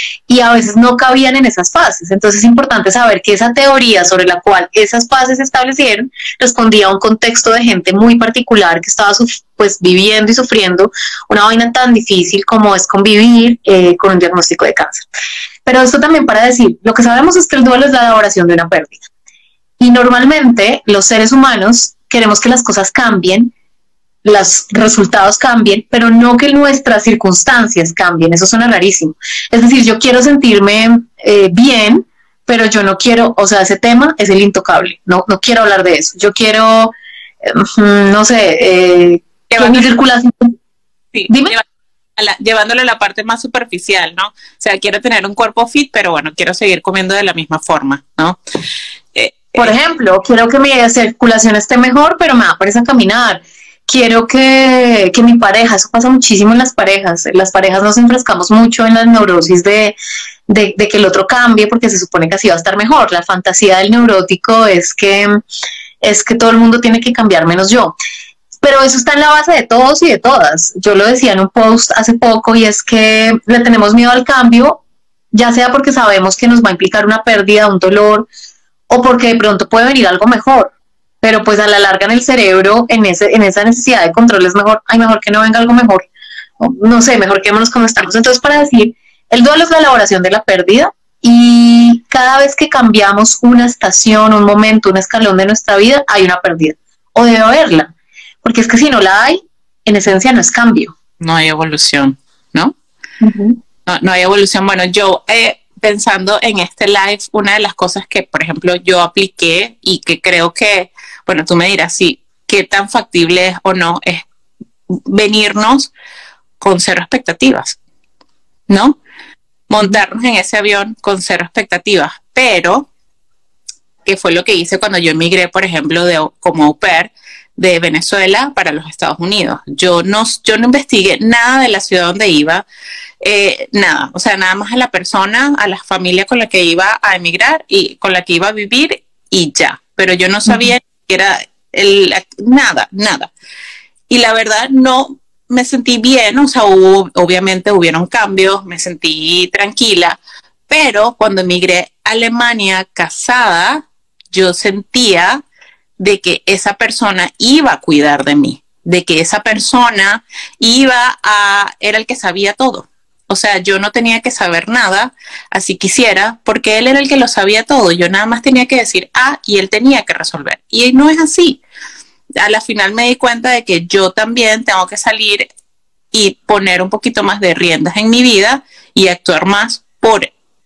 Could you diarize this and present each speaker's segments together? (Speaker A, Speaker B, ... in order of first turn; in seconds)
Speaker A: 0.3-15.1, 15.6-19.0, 19.8-23.5, 24.2-40.5, 41.3-41.5, 49.6-60.0, 60.5-65.3, 66.0-67.9, 68.6-74.8, 75.3-78.3, 78.9-86.1, 86.6-97.9, 98.4-100.9, 103.2-103.6, 140.5-140.7
Speaker B: 39.5-39.9, 41.1-41.6, 42.2-48.4, 49.1-49.7, 101.2-102.7, 103.8-114.2, 115.0-115.9, 116.6-117.8, 118.7-119.0, 119.7-122.9, 124.0-132.6, 133.2-143.3, 144.1-155.4, 156.0-171.6, 172.4-175.5, 176.1-180.3